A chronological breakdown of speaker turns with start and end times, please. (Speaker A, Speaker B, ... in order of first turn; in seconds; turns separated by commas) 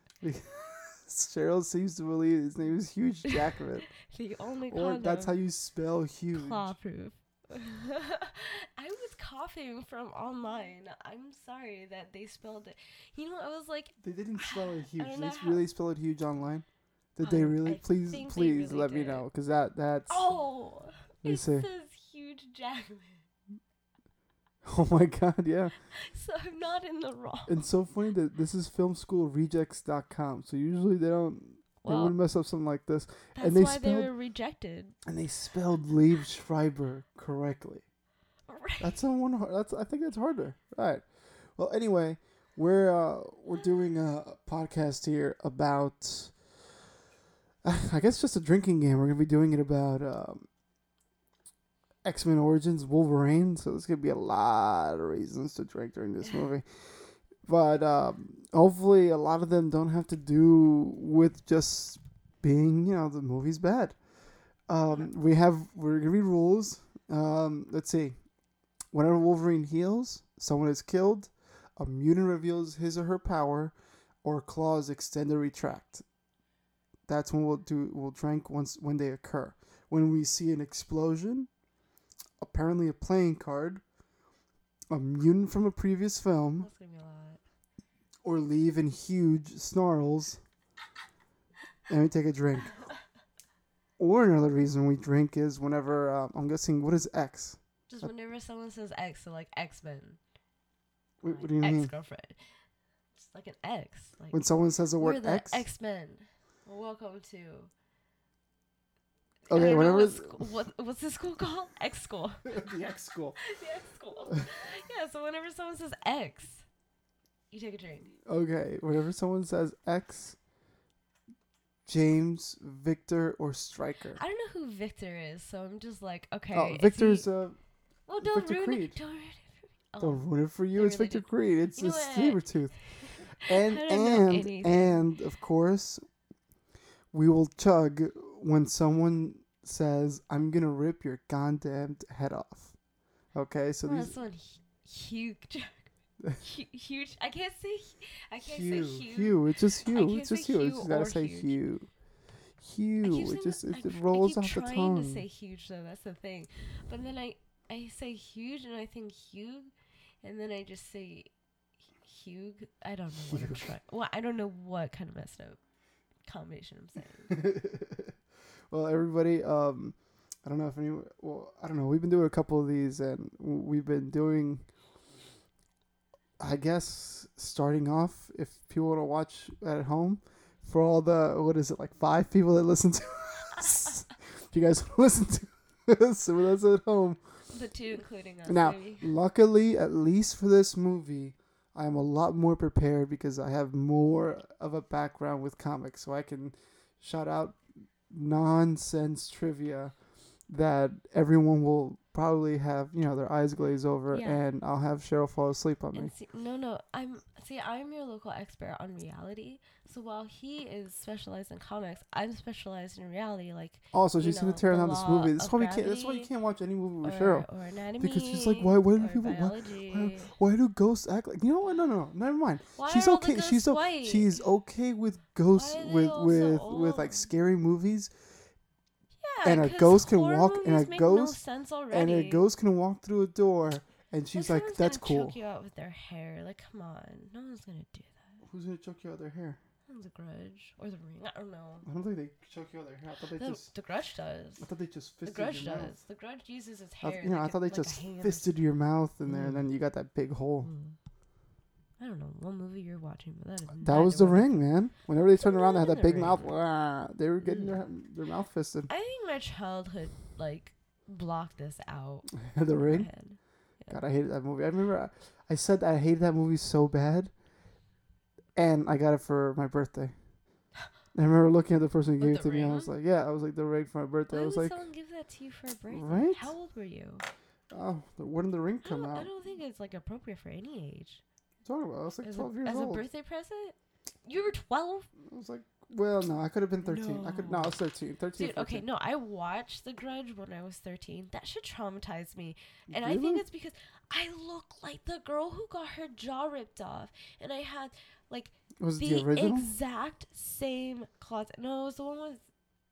Speaker A: 0.2-3.9, Speaker B: 4.0-5.3, Speaker A: 4.7-6.7, Speaker B: 6.3-15.7, Speaker A: 14.0-20.2, Speaker B: 17.2-19.3, Speaker B: 20.1-23.2, Speaker A: 21.2-21.7, Speaker A: 24.6-25.8, Speaker B: 25.9-27.6, Speaker A: 27.5-34.1, Speaker B: 31.8-32.1, Speaker B: 33.4-35.0, Speaker A: 35.0-37.9, Speaker B: 38.5-39.0, Speaker A: 38.8-46.4, Speaker A: 47.6-50.5, Speaker A: 52.0-68.2, Speaker B: 56.2-56.5, Speaker B: 64.9-65.1, Speaker A: 68.9-76.0, Speaker A: 77.1-81.5, Speaker A: 82.4-83.8, Speaker A: 84.9-86.7, Speaker B: 86.6-87.4, Speaker A: 88.2-90.4, Speaker A: 91.9-92.8, Speaker A: 94.0-98.1, Speaker B: 97.9-100.2, Speaker A: 101.2-101.9, Speaker B: 101.3-102.6, Speaker B: 103.1-107.7, Speaker A: 104.3-105.6, Speaker A: 109.5-110.5, Speaker B: 109.5-112.6, Speaker A: 112.5-113.4, Speaker B: 113.4-116.7, Speaker B: 117.5-118.1, Speaker A: 118.2-120.4, Speaker A: 121.8-124.2, Speaker B: 124.2-127.3, Speaker A: 126.5-127.6, Speaker B: 128.1-135.1, Speaker A: 128.2-129.0, Speaker A: 130.0-136.1, Speaker A: 137.1-142.8, Speaker A: 143.3-144.2, Speaker B: 143.8-151.6, Speaker A: 148.4-151.9, Speaker A: 152.6-155.2, Speaker B: 153.0-161.3, Speaker B: 162.0-165.6, Speaker A: 163.3-163.6, Speaker B: 166.2-167.3, Speaker A: 167.3-168.1, Speaker A: 168.7-174.7, Speaker A: 176.4-187.5, Speaker B: 187.5-189.1, Speaker A: 188.4-206.1, Speaker B: 204.1-204.4, Speaker B: 205.9-216.3, Speaker A: 213.9-217.4, Speaker B: 217.0-220.3, Speaker A: 218.0-228.3, Speaker B: 222.8-224.4, Speaker B: 225.5-227.3, Speaker B: 229.2-232.4, Speaker A: 229.4-235.3, Speaker B: 234.3-238.4, Speaker A: 238.4-239.6, Speaker B: 239.9-241.8, Speaker A: 241.8-243.7, Speaker B: 243.4-244.7, Speaker A: 244.6-245.9, Speaker B: 245.2-248.5, Speaker A: 247.0-250.7, Speaker B: 249.2-249.7, Speaker B: 250.6-251.0, Speaker B: 252.0-254.7, Speaker A: 253.8-258.9, Speaker B: 255.3-256.6, Speaker B: 257.4-257.8, Speaker B: 258.9-264.0, Speaker A: 262.4-263.1, Speaker A: 263.8-267.3, Speaker A: 268.5-270.2, Speaker A: 271.1-274.8, Speaker B: 272.2-272.9, Speaker B: 274.3-277.2, Speaker A: 275.9-276.5, Speaker A: 277.7-279.3, Speaker B: 278.8-281.2, Speaker A: 281.6-283.0, Speaker B: 282.2-285.1, Speaker A: 285.2-288.8, Speaker B: 286.8-287.8, Speaker B: 288.4-302.4, Speaker A: 292.9-293.4, Speaker A: 298.8-299.7